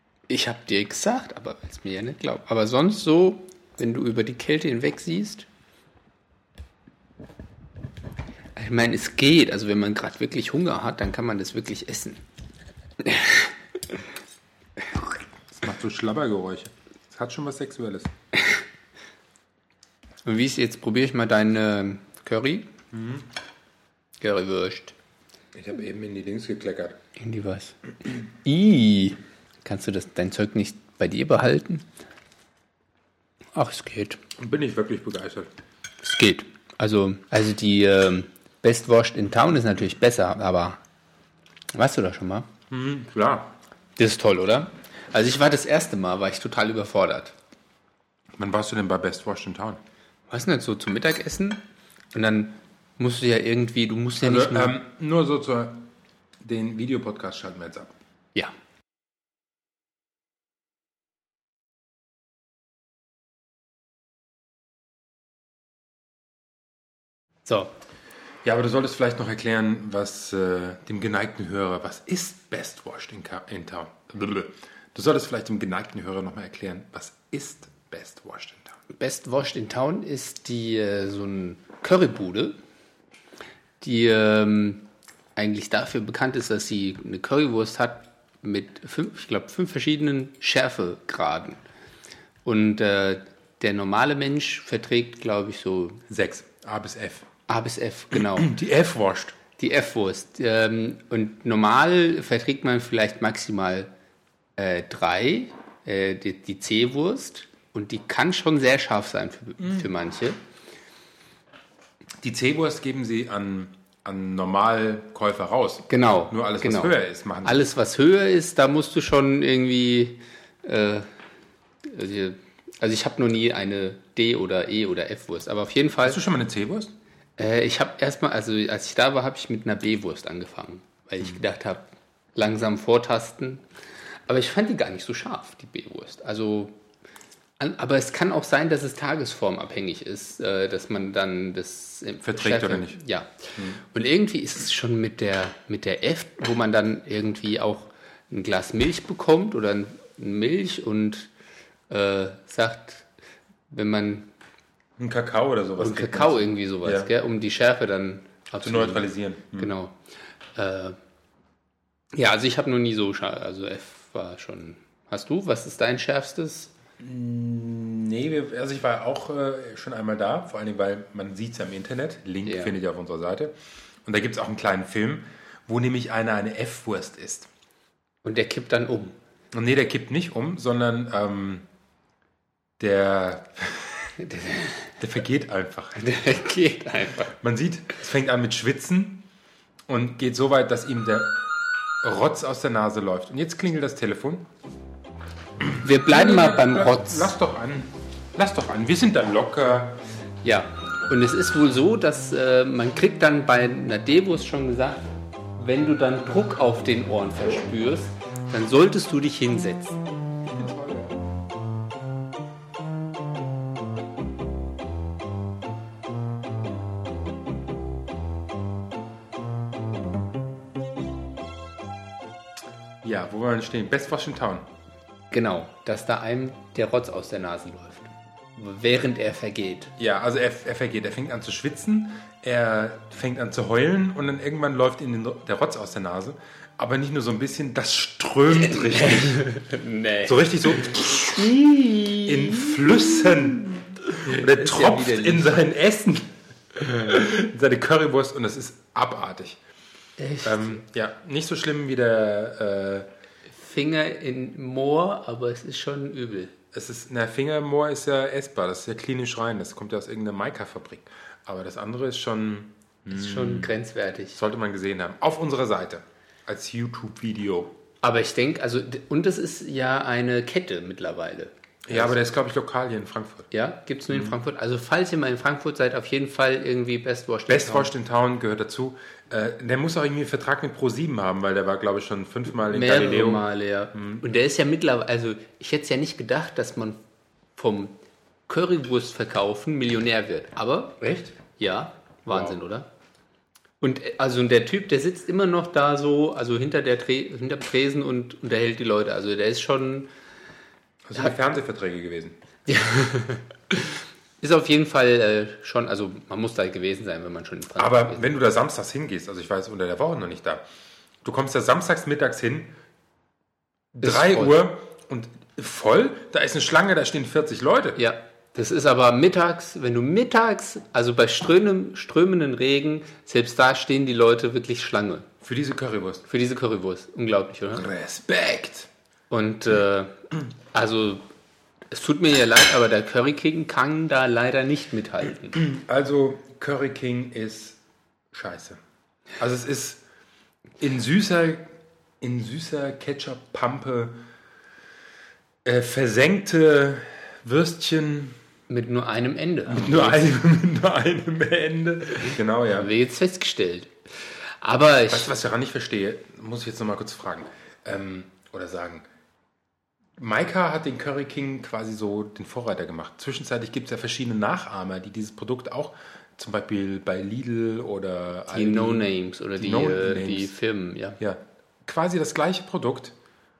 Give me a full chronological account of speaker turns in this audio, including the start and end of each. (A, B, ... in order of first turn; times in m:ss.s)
0:00.3-0:05.4 A
0:08.6-0:12.2 A
0:13.0-0:13.5 A
0:15.5-0:18.1 B
0:20.2-0:22.7 A
0:22.9-0:23.2 B
0:24.2-0:24.9 A
0:25.5-0:27.0 B
0:27.2-0:27.8 A
0:28.3-0:31.8 A
0:33.5-0:34.2 A
0:34.4-0:35.5 B
0:36.0-0:40.8 A
0:41.7-0:42.5 A
0:42.7-0:43.5 B
0:44.0-0:47.3 A
0:48.4-0:49.8 B
0:50.3-0:51.6 A
0:52.1-0:54.8 A
0:54.2-0:57.9 B
1:07.4-1:07.7 A
1:08.4-1:18.8 B
1:18.9-1:22.6 A
1:23.8-1:24.8 A
1:25.4-1:31.6 A
1:32.4-1:36.0 A
1:36.1-1:37.3 B
1:37.5-1:38.5 A
1:38.1-1:39.4 B
1:39.6-1:43.9 A
1:44.6-1:50.4 A
1:52.2-1:57.7 B
1:55.9-2:01.1 A
2:01.8-2:06.2 A
2:06.0-2:06.9 B
2:07.4-2:13.6 A
2:14.3-2:16.8 A
2:17.6-2:31.3 A
2:22.2-2:23.0 B
2:31.9-2:33.1 A
2:33.7-2:34.3 A
2:35.0-2:37.1 B
2:35.8-2:39.9 A
2:38.6-2:39.7 B
2:40.5-2:41.0 A
2:42.1-2:46.7 A
2:47.0-2:53.5 B
2:52.4-2:52.7 A
2:54.0-2:57.5 B
2:58.2-2:59.1 A
2:59.5-3:01.6 B
3:02.8-3:04.0 B
3:04.2-3:04.9 A
3:05.0-3:06.0 B
3:06.0-3:07.3 A
3:07.4-3:09.3 B
3:09.9-3:11.4 B
3:12.0-3:14.5 B
3:15.6-3:20.0 B
3:15.8-3:17.3 A
3:20.4-3:25.0 A
3:25.6-3:30.0 A
3:30.5-3:31.2 B
3:43.0-3:44.6 B
3:45.3-3:49.9 A
3:50.0-3:59.5 B
3:58.7-4:03.4 A
4:00.2-4:01.5 B
4:02.2-4:03.7 B
4:04.2-4:05.6 A
4:04.2-4:09.6 B
4:10.2-4:10.8 A
4:10.4-4:13.1 B
4:13.5-4:16.5 A
4:16.7-4:23.8 B
4:23.1-4:24.4 A
4:24.3-4:27.7 B
4:28.0-4:32.1 A
4:31.8-4:33.5 B
4:33.5-4:37.9 A
4:34.1-4:34.4 B
4:37.5-4:44.2 B
4:42.6-4:47.0 A
4:47.6-4:48.0 A
4:48.5-4:52.9 A
4:51.0-4:51.3 B
4:52.3-4:52.6 B
4:53.8-5:00.1 A
5:01.0-5:02.4 B
5:02.7-5:08.3 A
5:07.8-5:10.6 B
5:11.2-5:12.7 B
5:14.0-5:18.0 B
5:14.0-5:14.6 A
5:18.0-5:25.3 A
5:25.4-5:26.2 B
5:26.3-5:27.9 A
5:27.7-5:28.9 B
5:29.3-5:30.2 A
5:30.7-5:31.2 A
5:31.9-5:35.6 A
5:35.6-5:37.8 B
5:38.3-5:38.8 B
5:39.4-5:40.0 B
5:40.8-5:44.2 B
5:45.6-5:48.4 B
5:48.7-5:50.2 A
5:49.7-5:52.9 B
5:52.7-5:55.3 A
5:55.1-5:59.0 B
6:00.2-6:10.5 B
6:08.5-6:11.2 A
6:11.2-6:13.1 B